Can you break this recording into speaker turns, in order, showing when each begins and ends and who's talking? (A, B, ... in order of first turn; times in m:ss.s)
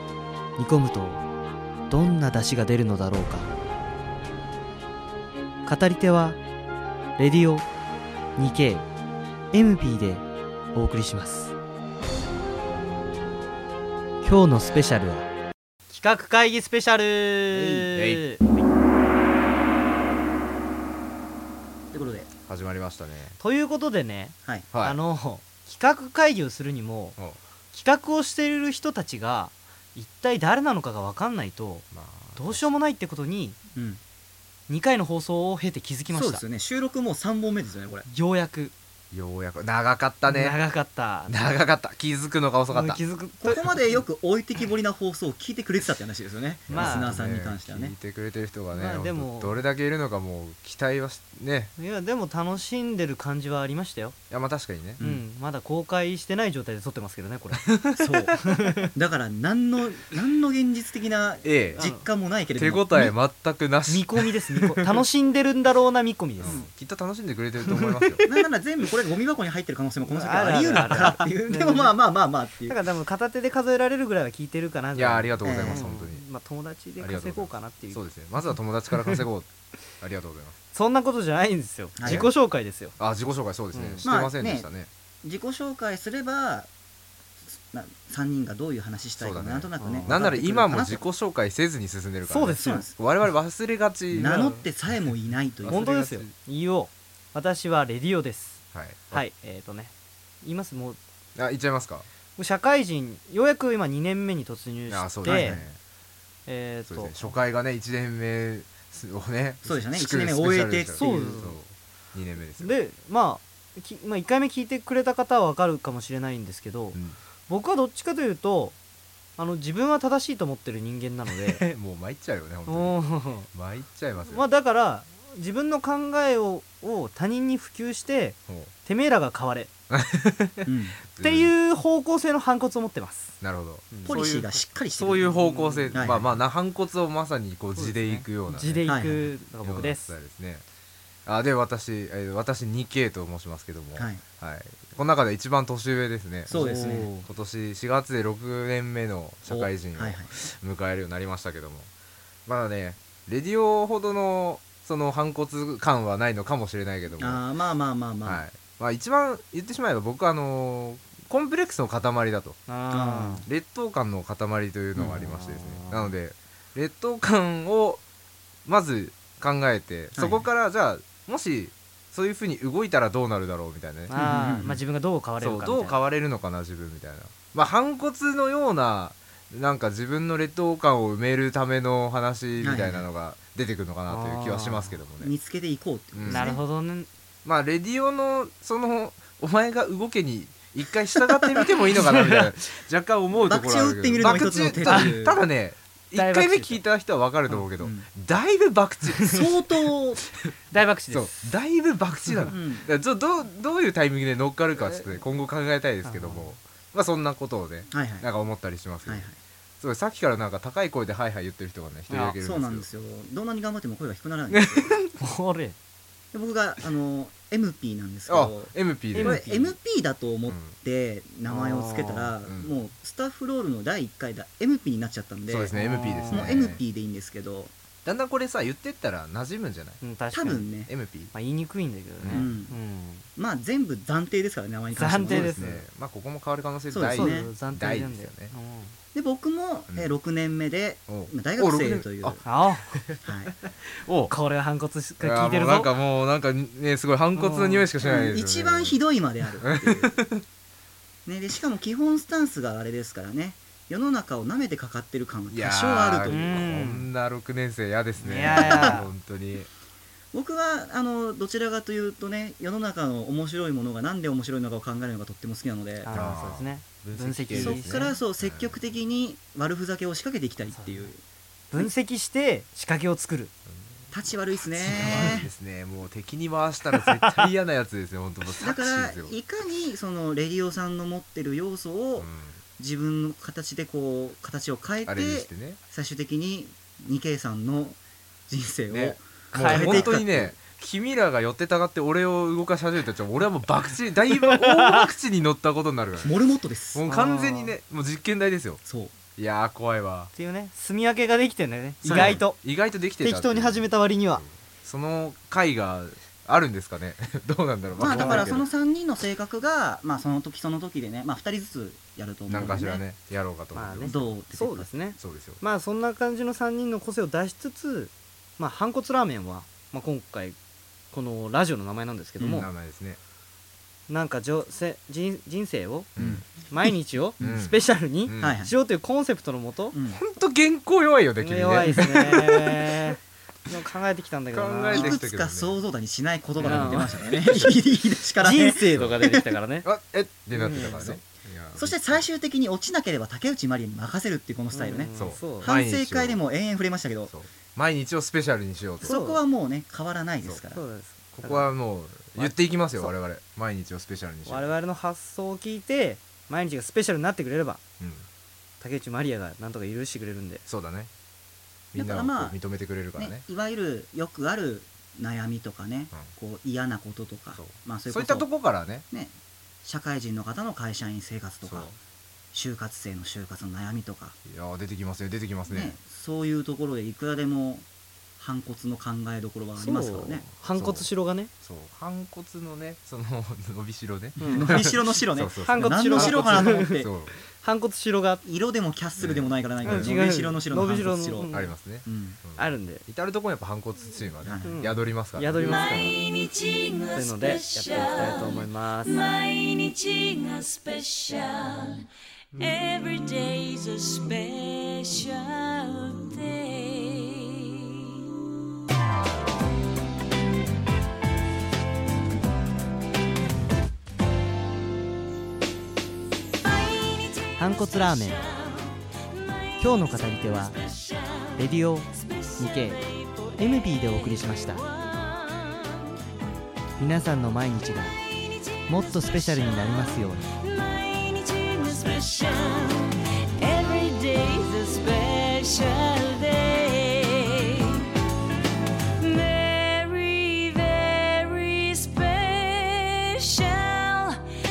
0:00.6-0:01.2 A
0:01.9-0:03.5 A
0:05.7-0:06.4 A
0:07.2-0:07.7 A
0:08.4-0:08.9 A
0:09.5-0:11.6 A
0:14.2-0:15.3 A
0:15.9-0:18.7 A
0:17.5-0:17.9 B
0:18.0-0:18.3 C
0:21.9-0:22.3 B
0:22.5-0:23.4 C
0:23.4-0:27.2 A
0:24.7-0:25.0 C
0:27.7-0:33.6 A
0:31.9-0:32.7 C
0:33.8-0:34.0 B
0:34.7-0:36.4 A
0:36.1-0:38.1 B
0:38.1-0:38.8 A
0:39.1-0:40.6 C
0:40.2-0:41.4 A
0:41.3-0:43.0 C
0:42.7-0:44.0 A
0:43.4-0:47.9 B
0:46.7-0:51.7 C
0:46.7-0:47.2 A
0:48.7-0:49.6 A
0:51.8-0:54.2 A
0:54.3-0:55.0 C
0:55.0-0:55.2 B
0:55.0-0:57.7 A
0:57.7-0:58.7 C
0:58.0-0:58.4 B
0:58.4-0:58.9 A
0:58.9-1:03.2 B
1:01.4-1:01.8 C
1:01.8-1:02.0 A
1:02.6-1:05.0 C
1:03.9-1:06.6 A
1:06.4-1:08.2 C
1:06.4-1:06.7 B
1:07.7-1:08.4 A
1:08.2-1:12.8 B
1:10.0-1:12.0 A
1:10.5-1:11.2 C
1:12.7-1:19.2 A
1:15.0-1:16.2 C
1:15.4-1:15.9 B
1:17.0-1:19.5 C
1:20.0-1:20.6 C
1:20.7-1:23.0 A
1:22.0-1:22.3 B
1:22.0-1:22.3 C
1:23.0-1:24.9 C
1:23.7-1:24.1 A
1:24.0-1:24.7 B
1:25.2-1:26.7 B
1:27.5-1:31.0 B
1:29.2-1:34.7 C
1:29.8-1:30.2 A
1:32.3-1:32.9 A
1:32.6-1:32.9 B
1:34.1-1:35.9 B
1:35.6-1:36.3 C
1:35.7-1:41.0 A
1:38.7-1:39.2 C
1:41.4-1:42.1 C
1:42.4-1:45.6 A
1:44.9-1:45.8 C
1:45.2-1:45.7 B
1:46.5-1:47.4 A
1:46.9-1:52.8 C
1:49.6-1:51.2 B
1:51.0-1:51.6 A
1:52.6-1:57.0 A
1:56.9-1:57.2 C
1:57.5-1:58.8 A
1:59.4-2:01.6 A
2:01.3-2:04.4 C
2:02.7-2:03.5 A
2:04.2-2:09.7 A
2:09.9-2:11.6 C
2:10.7-2:11.0 B
2:11.2-2:13.4 A
2:13.4-2:18.9 C
2:13.9-2:14.2 A
2:14.0-2:15.3 B
2:15.2-2:16.2 A
2:15.9-2:16.3 B
2:17.7-2:20.1 A
2:18.9-2:19.3 B
2:19.5-2:20.6 C
2:21.3-2:31.9 C
2:24.0-2:24.2 B
2:26.5-2:27.1 B
2:26.5-2:27.3 A
2:29.5-2:30.3 B
2:32.5-2:37.4 C
2:37.2-2:38.4 B
2:38.2-2:42.6 C
2:42.7-2:43.5 A
2:42.9-2:43.4 B
2:43.4-2:48.0 C
2:45.1-2:46.1 A
2:48.7-2:54.2 C
2:50.2-2:50.5 B
2:54.1-2:56.0 A
2:54.1-2:54.8 B
2:55.4-3:05.3 C
3:02.6-3:03.0 B
3:04.1-3:05.0 A
3:05.2-3:06.6 B
3:06.1-3:06.5 C
3:06.3-3:07.1 A
3:07.4-3:19.6 C
3:11.9-3:12.5 A
3:13.4-3:15.4 B
3:14.9-3:15.2 A
3:16.2-3:16.8 A
3:17.8-3:18.1 B
3:19.3-3:20.2 B
3:20.7-3:21.5 A
3:21.1-3:29.3 C
3:22.3-3:22.5 A
3:22.5-3:22.9 B
3:26.0-3:26.6 A
3:27.9-3:28.3 B
3:29.0-3:29.4 B
3:29.8-3:32.9 C
3:32.1-3:32.4 A
3:32.4-3:34.9 B
3:34.5-3:35.2 C
3:35.2-3:35.8 A
3:36.3-3:45.7 B
3:38.3-3:39.4 C
3:39.2-3:39.8 A
3:40.5-3:40.8 C
3:41.5-3:42.4 A
3:42.4-3:42.7 C
3:45.5-3:46.8 C
3:45.7-3:46.7 A
3:46.3-3:47.7 B
3:48.0-3:50.0 C
3:50.0-3:50.7 A
3:50.3-3:50.9 B
3:50.9-3:51.3 C
3:51.3-3:53.3 A
3:52.2-3:52.5 C
3:52.3-3:52.8 B
3:53.4-3:55.6 B
3:55.0-3:55.8 A
3:55.2-3:58.5 C
3:56.9-3:57.5 B
3:57.1-3:59.0 A
3:59.1-4:02.4 B
4:01.1-4:04.3 C
4:02.4-4:03.0 A
4:03.2-4:03.5 B
4:04.3-4:06.0 A
4:05.2-4:09.0 C
4:07.3-4:07.9 A
4:08.0-4:10.2 B
4:09.6-4:10.4 C
4:11.3-4:16.7 B
4:15.5-4:19.7 C
4:16.3-4:17.1 A
4:18.2-4:19.1 A
4:18.3-4:19.0 B
4:20.3-4:26.1 B
4:26.0-4:28.2 A
4:26.1-4:28.8 C
4:27.5-4:31.2 B
4:30.7-4:31.1 A
4:31.7-4:33.5 A
4:33.7-4:34.1 C
4:34.1-4:35.5 B
4:34.7-4:39.3 C
4:34.8-4:35.5 A
4:38.6-4:50.6 B
4:42.2-4:42.6 C
4:45.1-4:45.8 C
4:48.9-4:56.4 C
4:49.5-4:50.2 A
4:54.6-4:55.1 A
4:56.2-4:57.0 B
4:56.9-4:58.8 C
4:57.1-4:57.7 A
4:58.8-4:59.2 B
4:59.4-5:00.3 C
5:00.3-5:02.6 A
5:02.0-5:08.7 C
5:02.0-5:02.4 B
5:03.2-5:04.4 A
5:08.0-5:08.5 A
5:08.0-5:13.0 B
5:12.5-5:14.3 C
5:13.7-5:20.6 A
5:14.0-5:14.9 B
5:15.2-5:15.6 C
5:21.1-5:22.7 A
5:22.4-5:22.7 B
5:22.5-5:23.2 C
5:24.1-5:26.1 A
5:26.2-5:26.5 C
5:26.2-5:26.4 B
5:26.7-5:30.0 A
5:27.4-5:28.6 C
5:28.4-5:28.7 B
5:29.9-5:30.2 B
5:30.1-5:32.8 C
5:31.4-5:35.2 A
5:34.5-5:35.8 C
5:34.9-5:39.5 B
5:36.6-5:37.7 C
5:36.6-5:37.2 A
5:38.4-5:39.9 A
5:38.9-5:39.2 C
5:39.8-5:42.2 C
5:40.5-5:41.2 A
5:40.8-5:41.2 B
5:41.8-5:47.3 B
5:44.7-5:45.7 A
5:45.2-5:46.4 C
5:47.3-5:49.2 C
5:49.0-5:50.8 B
5:49.0-5:49.4 A
5:50.7-5:51.7 A
5:51.3-5:54.8 C
5:52.4-5:53.1 A
5:54.5-5:57.8 A
5:58.0-5:58.3 C
5:58.8-6:00.6 A
6:00.7-6:01.1 C
6:01.9-6:03.4 C
6:02.0-6:02.6 B
6:03.2-6:08.5 B
6:07.6-6:09.0 C
6:09.1-6:11.9 B
6:11.6-6:12.0 C
6:12.5-6:14.4 B
6:14.4-6:16.0 C
6:15.7-6:17.9 B
6:18.4-6:20.4 B
6:19.8-6:21.5 A
6:20.8-6:21.1 C
6:21.6-6:27.4 C
6:24.4-6:27.1 B
6:24.4-6:24.7 A
6:25.6-6:28.4 A
6:28.4-6:31.5 B
6:29.2-6:30.2 C
6:29.8-6:31.8 A
6:31.5-6:36.1 C
6:32.0-6:32.4 B
6:32.6-6:33.0 A
6:34.4-6:34.8 B
6:34.6-6:36.2 A
6:36.5-6:37.1 D
6:37.1-6:39.3 A
6:39.3-6:42.0 D
6:42.6-6:47.3 D
6:57.5-6:58.5 A
6:59.8-7:00.8 A
7:01.5-7:04.9 A
7:05.2-7:05.6 D
7:07.0-7:08.2 A
7:08.9-7:10.5 A
7:10.7-7:18.0 D
7:19.2-7:22.6 D
7:22.8-7:23.2 A
7:23.5-7:24.2 D